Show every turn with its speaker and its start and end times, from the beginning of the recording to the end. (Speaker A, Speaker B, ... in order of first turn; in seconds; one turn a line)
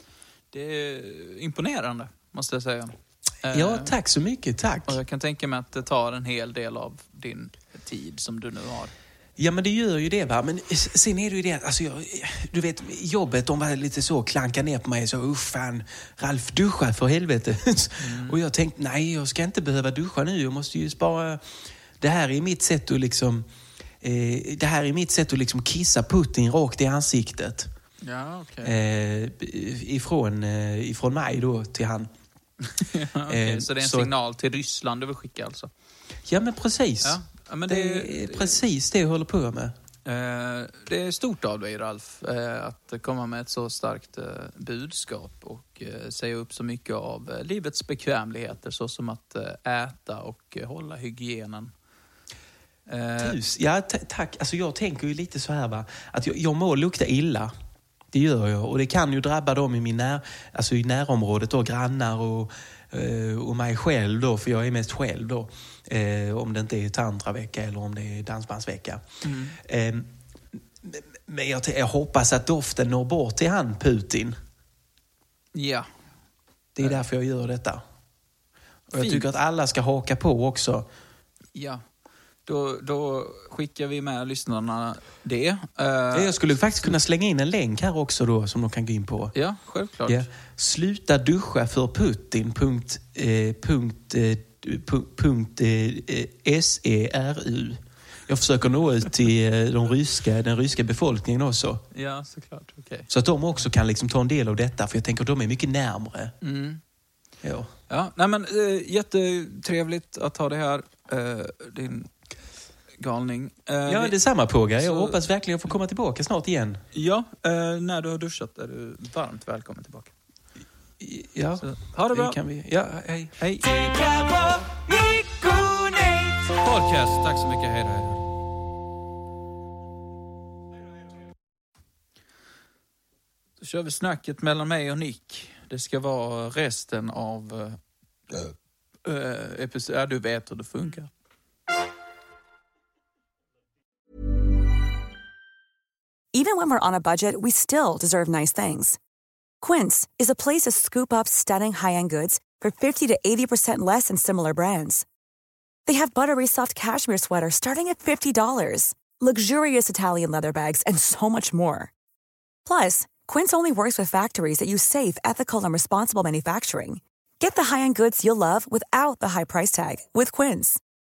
Speaker A: 0.5-3.9
Speaker B: 3.5-5.0
Speaker A: 4.9-8.9
Speaker B: 9.4-21.4
Speaker A: 18.0-18.4
Speaker B: 22.0-23.5
Speaker B: 24.0-27.7
Speaker A: 28.0-28.8
Speaker B: 28.6-32.1
Speaker A: 32.6-35.7
Speaker B: 33.3-34.1
Speaker B: 36.3-39.7
Speaker A: 37.0-38.6
Speaker A: 40.0-51.7
Speaker A: 52.9-53.4
Speaker B: 53.2-57.5
Speaker B: 58.1-69.0
Speaker A: 69.2-69.6
Speaker B: 69.6-74.4
Speaker A: 75.5-75.9
Speaker B: 76.8-77.8
Speaker B: 78.9-80.9
Speaker A: 79.0-79.3
Speaker A: 81.5-81.8
Speaker A: 82.5-87.0
Speaker B: 86.1-89.3
Speaker A: 89.3-90.3
Speaker B: 90.1-101.8
Speaker A: 101.9-103.1
Speaker B: 103.1-106.3
Speaker A: 106.4-106.8
Speaker B: 107.4-107.7
Speaker A: 107.9-112.1
Speaker A: 113.0-114.2
Speaker B: 113.9-116.8
Speaker A: 114.8-115.2
Speaker A: 116.9-120.1
Speaker B: 121.0-123.4
Speaker A: 121.6-122.4
Speaker A: 123.4-128.3
Speaker A: 133.6-137.8
Speaker A: 139.1-141.1
Speaker C: 146.3-149.0
Speaker C: 149.6-155.1
Speaker C: 155.9-161.9
Speaker C: 162.7-170.8